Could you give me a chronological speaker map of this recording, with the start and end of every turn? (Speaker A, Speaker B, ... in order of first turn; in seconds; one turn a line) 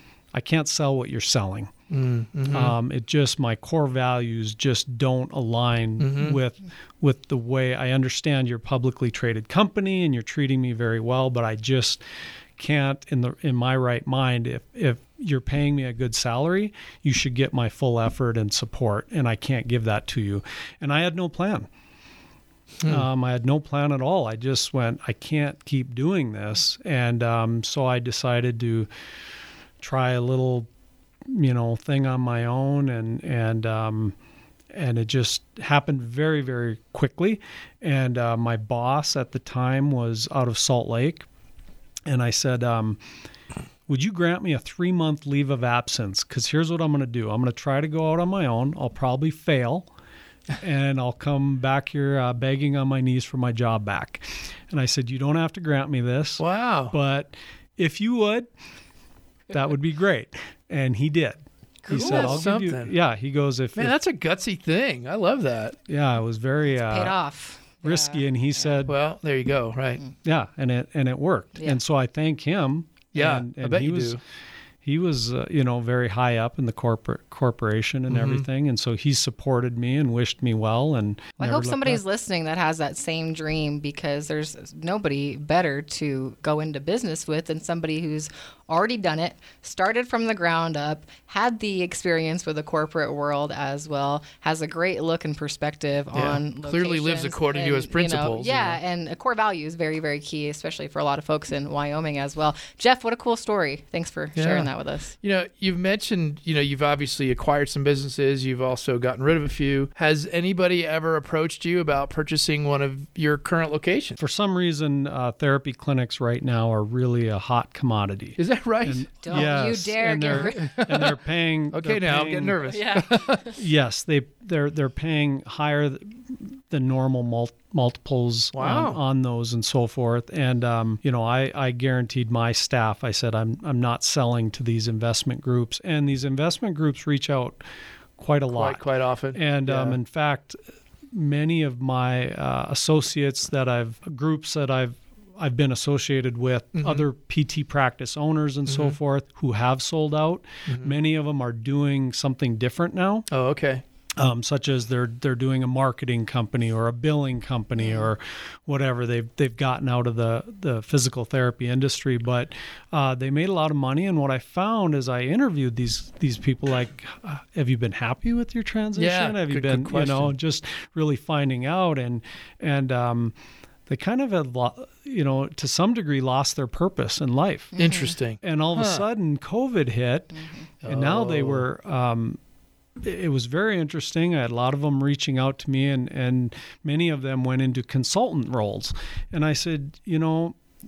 Speaker A: 0.3-1.7
Speaker B: 1.9-2.8
Speaker A: 2.5-12.0
Speaker B: 6.0-6.4
Speaker A: 12.6-21.7
Speaker B: 22.8-23.1
Speaker A: 22.8-28.9
Speaker A: 29.8-30.7
Speaker A: 31.2-34.1
Speaker A: 34.7-41.3
Speaker A: 42.1-43.0
Speaker A: 43.9-49.9
Speaker A: 50.6-58.5
Speaker B: 56.4-56.9
Speaker A: 59.5-63.9
Speaker C: 61.8-62.4
Speaker B: 61.9-62.9
Speaker B: 63.8-65.8
Speaker A: 65.9-67.2
Speaker C: 66.8-68.7
Speaker A: 67.8-69.0
Speaker B: 68.8-70.0
Speaker A: 70.2-74.2
Speaker B: 73.1-74.2
Speaker A: 74.8-82.0
Speaker B: 78.1-78.4
Speaker C: 81.4-105.1
Speaker B: 96.1-98.8
Speaker B: 104.3-104.7
Speaker B: 105.2-114.2
Speaker A: 114.2-122.7
Speaker B: 118.4-119.6
Speaker C: 119.2-120.8
Speaker B: 120.3-121.1
Speaker B: 121.7-123.5
Speaker C: 122.7-123.5
Speaker A: 123.5-137.6
Speaker B: 128.5-129.0
Speaker A: 138.2-138.8
Speaker B: 138.5-140.0
Speaker A: 139.3-140.6
Speaker A: 141.1-153.3
Speaker B: 146.7-147.0
Speaker B: 148.7-149.0
Speaker B: 150.7-150.9
Speaker B: 153.3-153.8
Speaker A: 154.2-173.3
Speaker B: 168.9-170.3
Speaker A: 173.9-177.8
Speaker C: 177.7-178.1
Speaker B: 177.8-179.0
Speaker A: 178.3-182.4
Speaker C: 180.3-180.7
Speaker B: 180.8-181.7
Speaker A: 183.0-190.6